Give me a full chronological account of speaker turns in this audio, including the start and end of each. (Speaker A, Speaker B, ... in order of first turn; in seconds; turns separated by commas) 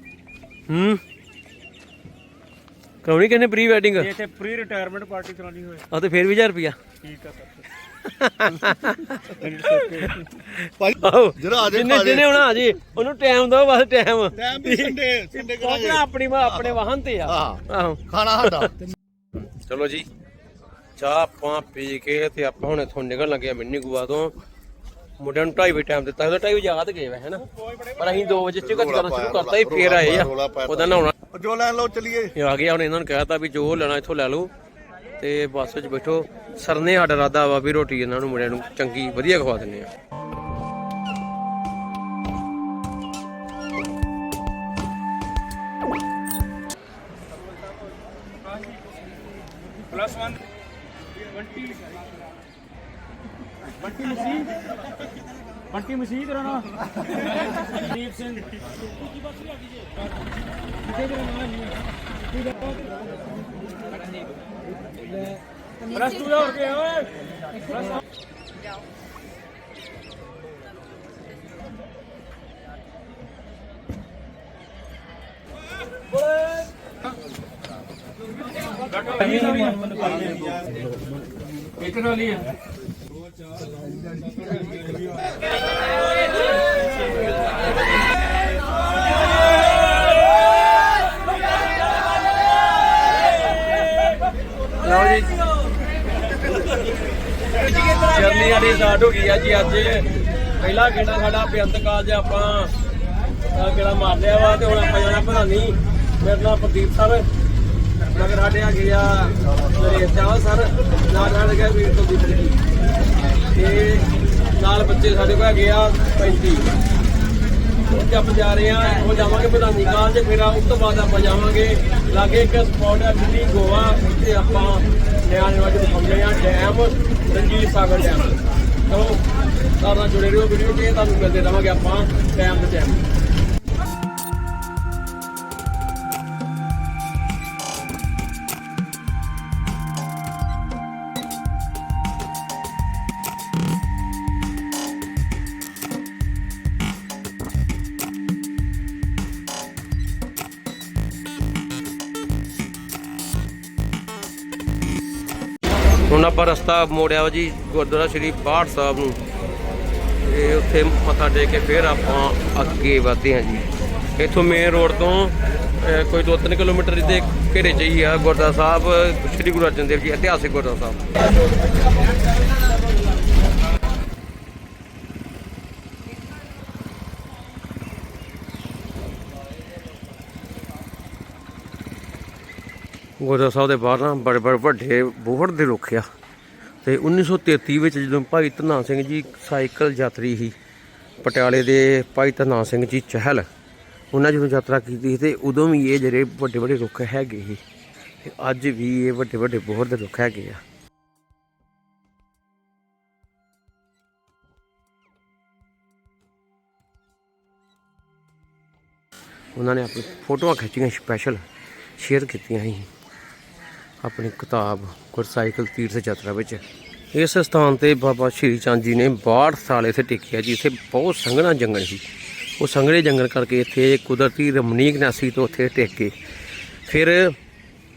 Speaker A: 0.7-1.0, Speaker A: 3.0-4.1, Speaker B: 4.0-5.9, Speaker A: 5.9-6.8, Speaker B: 7.0-7.7, Speaker A: 8.0-18.7, Speaker B: 9.4-10.3, Speaker C: 10.8-12.4, Speaker C: 14.3-18.8, Speaker A: 19.6-20.1, Speaker A: 20.9-24.3, Speaker A: 25.2-27.4, Speaker A: 27.9-31.1, Speaker C: 28.6-32.3, Speaker A: 32.3-34.5, Speaker A: 35.2-39.9, Speaker B: 49.9-50.4, Speaker B: 51.2-51.9, Speaker B: 53.8-54.5, Speaker B: 55.7-58.8, Speaker B: 65.8-67.9, Speaker B: 79.0-80.5, Speaker C: 80.0-81.2, Speaker B: 81.8-82.5, Speaker B: 84.4-84.8, Speaker A: 94.8-95.4, Speaker A: 97.6-102.7, Speaker A: 103.5-107.2, Speaker A: 108.1-112.5, Speaker A: 113.5-116.7, Speaker A: 117.8-129.2, Speaker A: 129.8-133.0, Speaker A: 156.1-159.2, Speaker A: 160.2-171.1, Speaker A: 183.2-186.1, Speaker A: 186.8-190.5, Speaker A: 191.2-193.5, Speaker A: 194.1-197.6, Speaker A: 198.2-200.6, Speaker A: 209.5-211.4, Speaker A: 211.9-212.9, Speaker A: 214.0-222.0, Speaker A: 222.6-226.1, Speaker A: 226.8-227.4